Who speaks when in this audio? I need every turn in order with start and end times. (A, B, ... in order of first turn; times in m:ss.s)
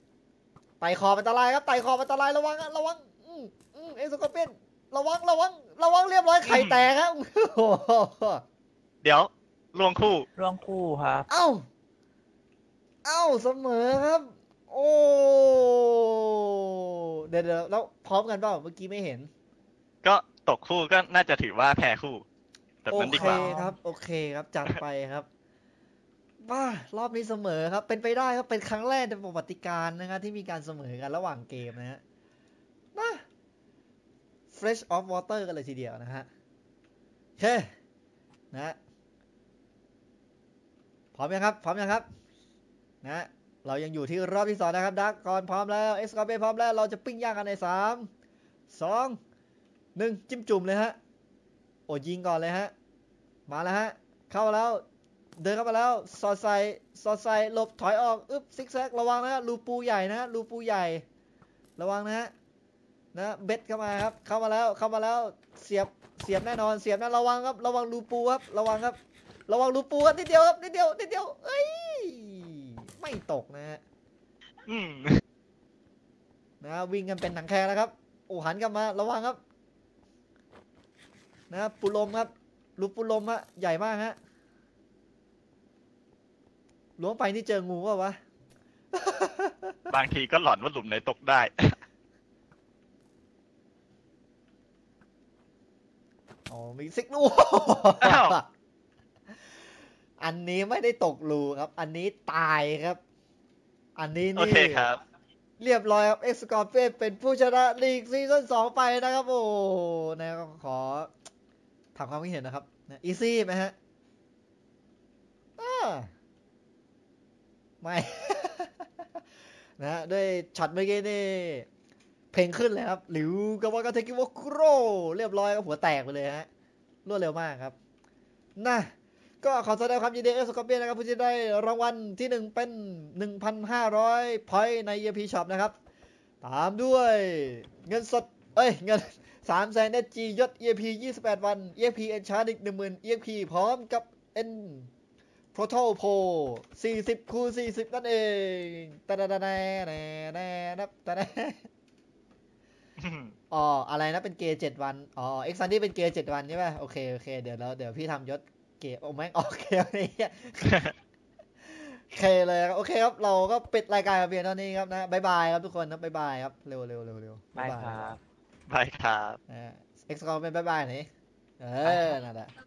0:00.8-0:08.4 A
0:06.4-0:06.8 B
0:09.0-0:10.3 B
0:10.4-0:11.3 C
0:11.3-0:11.6 A
0:13.0-0:19.3 A
0:20.0-0:22.2 B
0:22.8-0:23.6 B
0:22.9-0:25.3 A
0:23.1-0:23.8 C
0:26.4-0:32.0 A
0:33.0-0:33.2 A
0:34.5-0:36.3 A
0:37.4-0:37.7 A
0:41.2-0:42.1 A
0:43.0-0:48.1 A
0:48.7-0:49.2 A
0:50.0-0:51.0 A
0:51.9-0:52.7 A
0:53.5-0:54.8 A
0:55.4-1:01.0 A
1:01.8-1:02.3 A
1:03.1-1:13.8 A
1:14.7-1:15.2 B
1:16.6-1:19.4 A
1:21.5-1:24.2 A
1:27.0-1:28.2 A
1:28.9-1:29.9 A
1:29.9-1:31.8 B
1:36.5-1:38.5 A
1:38.0-1:38.4 B
1:40.2-1:43.0 A
1:44.0-1:44.9 A
1:44.4-1:45.0 B
1:45.6-1:51.1 A
1:52.0-1:53.7 A
1:55.6-1:56.1 A
1:57.8-1:58.9 A
1:59.8-2:01.7 A
2:02.3-2:06.5 A
2:07.1-2:07.8 A
2:08.6-2:08.9 A
2:09.4-2:15.8 A
2:16.4-2:24.9 A
2:25.5-2:31.7 A
2:33.0-2:33.3 B
2:33.5-2:40.8 A
2:40.6-2:40.9 B
2:41.7-2:48.1 A
2:47.6-2:48.2 C
2:48.7-2:49.4 B
2:49.5-2:51.1 A
2:51.6-2:52.5 A